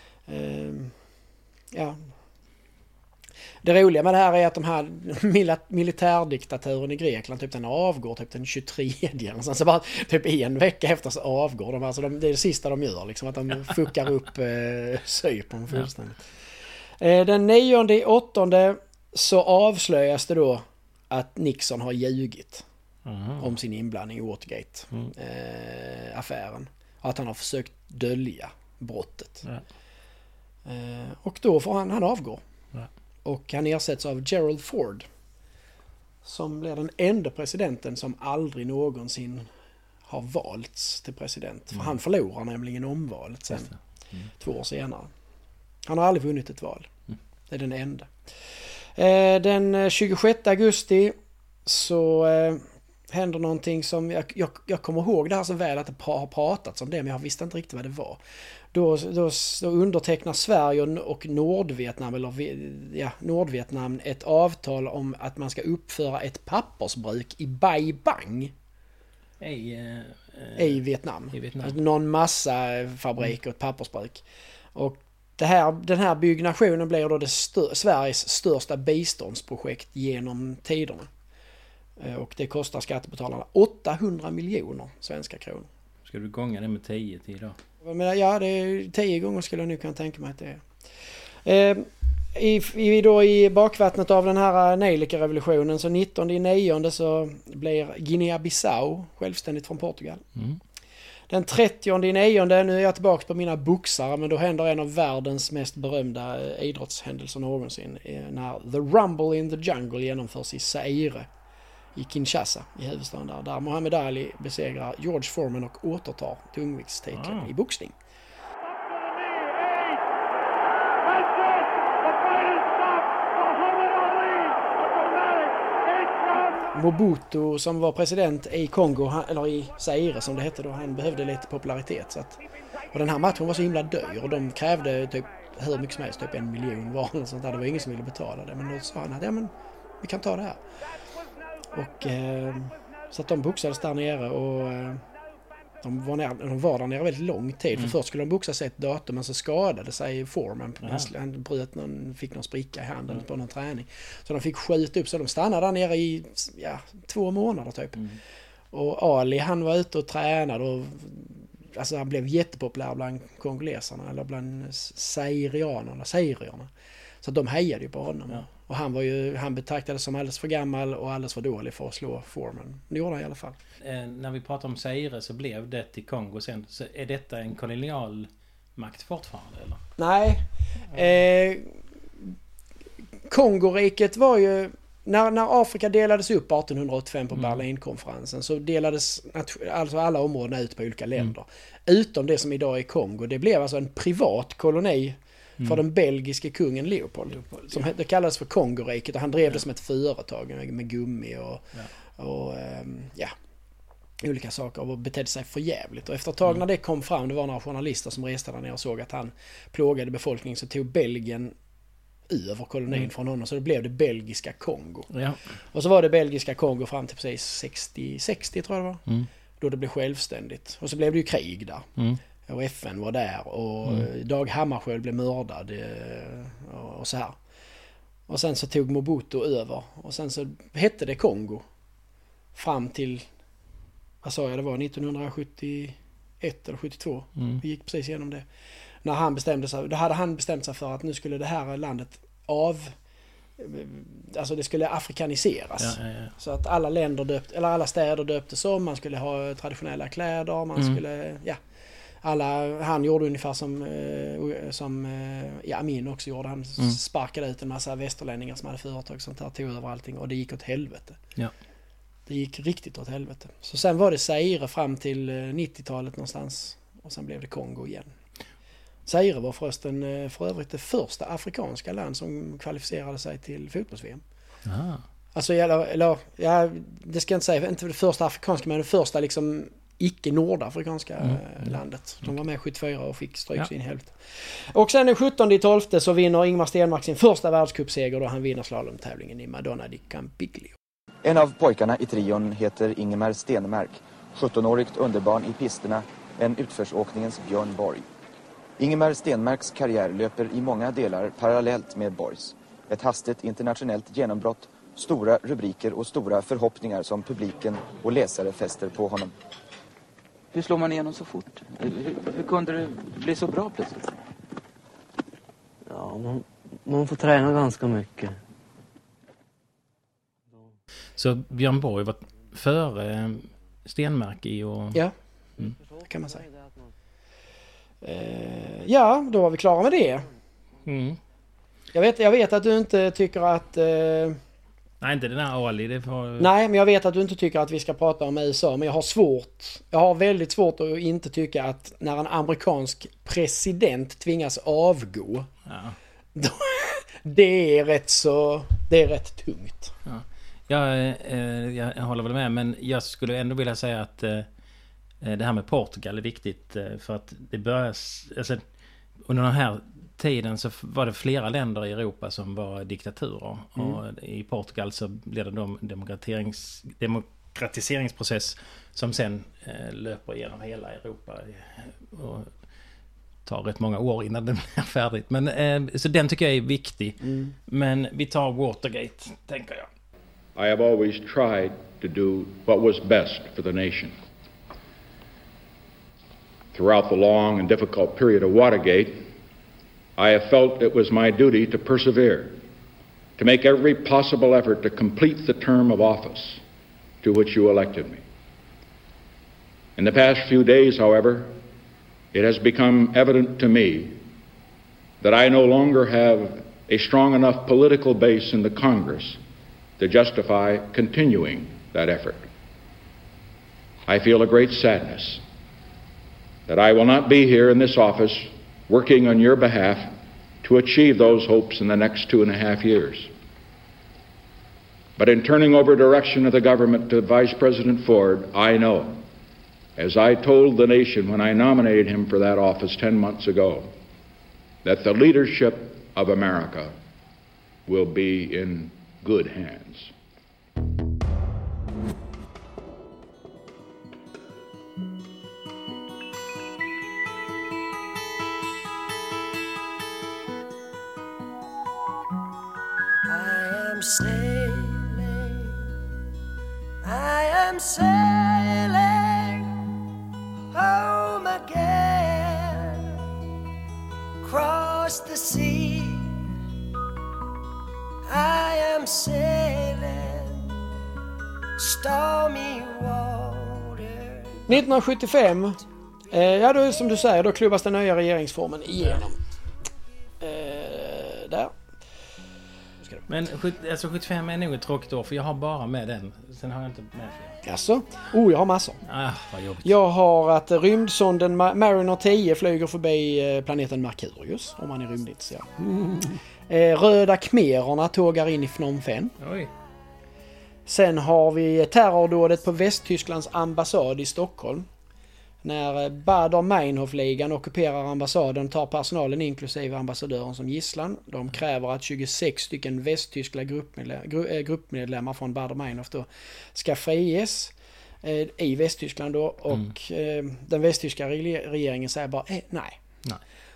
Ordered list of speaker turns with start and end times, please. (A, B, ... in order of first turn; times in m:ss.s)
0:00.3-0:00.9 A
0:01.7-0:02.0 A
0:03.6-0:16.2 A
0:17.0-0:22.6 A
0:23.1-0:23.5 B
0:23.4-0:29.5 A
0:30.7-0:32.4 A
0:33.2-0:35.1 A
0:36.2-0:39.5 A
0:40.1-0:43.7 A
0:43.5-0:44.3 B
0:44.4-0:45.1 A
0:45.9-0:46.9 A
0:47.5-0:48.1 A
0:49.0-0:58.2 A
0:58.7-1:08.5 A
1:09.4-1:10.8 B
1:10.6-1:14.2 A
1:11.3-1:11.7 B
1:14.8-1:21.1 A
1:22.0-1:25.7 A
1:26.1-1:27.6 B
1:27.8-1:30.6 A
1:31.4-1:40.2 A
1:41.3-1:51.3 A
1:52.0-1:58.0 A
1:57.2-1:57.5 B
2:06.7-2:12.4 A
2:12.9-2:20.6 A
2:21.7-2:25.0 A
2:25.8-2:38.0 A
2:30.8-2:31.1 B
2:38.7-2:46.7 A
2:47.2-2:53.6 A
2:53.8-2:59.8 B
3:00.0-3:02.3 A
3:03.3-3:21.7 A
3:17.4-3:17.8 B
3:22.2-3:23.3 A
3:24.2-3:31.6 A
3:32.3-3:35.1 A
3:35.1-3:35.4 B
3:35.7-3:39.0 A
3:39.6-3:41.9 A
3:42.5-3:47.4 A
3:48.3-3:51.7 A
3:52.6-3:53.3 A
3:54.2-3:58.5 A
3:57.4-3:57.6 B
3:59.0-4:03.0 A
4:03.6-4:11.6 A
4:05.8-4:06.3 B
4:12.2-4:21.2 A
4:22.3-4:28.2 A
4:29.1-4:34.2 A
4:34.7-4:35.0 B
4:35.4-4:50.8 A
4:41.3-4:41.7 B
4:51.2-4:58.1 C
4:58.8-5:09.3 C
5:10.5-5:14.0 D
5:15.9-5:18.4 E
5:21.2-5:25.0 B
5:26.0-5:26.5 A
5:28.0-5:30.3 A
5:30.8-5:31.2 B
5:31.9-5:34.4 A
5:35.0-5:36.5 B
5:36.4-5:45.5 A
5:45.7-5:46.0 B
5:46.4-5:49.9 A
5:50.1-5:54.5 B
5:55.2-5:58.6 B
5:59.2-6:12.5 B
6:13.5-6:19.9 B
6:20.6-6:24.2 F
6:26.7-6:29.3 F
6:30.2-6:32.6 F
6:33.4-6:36.6 F
6:37.2-6:38.2 F
6:40.0-6:41.5 F
6:42.3-6:44.2 F
6:45.2-6:49.4 F
6:50.0-6:52.5 F
6:54.1-6:55.4 F
6:56.7-7:03.3 F
7:05.2-7:09.2 F
7:10.0-7:13.9 F
7:14.8-7:17.0 F
7:17.9-7:20.1 F
7:33.3-7:35.8 G
7:37.0-7:39.7 G
7:40.7-7:43.2 G
7:44.4-7:46.4 G
7:48.3-7:50.8 G
7:51.8-7:54.7 G
7:54.7-7:55.8 A
7:56.3-7:59.4 A
8:00.4-8:01.7 A
8:03.3-8:07.6 B
8:07.6-8:09.0 A
8:09.1-8:10.0 B
8:09.8-8:15.7 A
8:16.7-8:19.4 A
8:19.4-8:19.7 B
8:20.9-8:24.9 A
8:25.6-8:43.0 A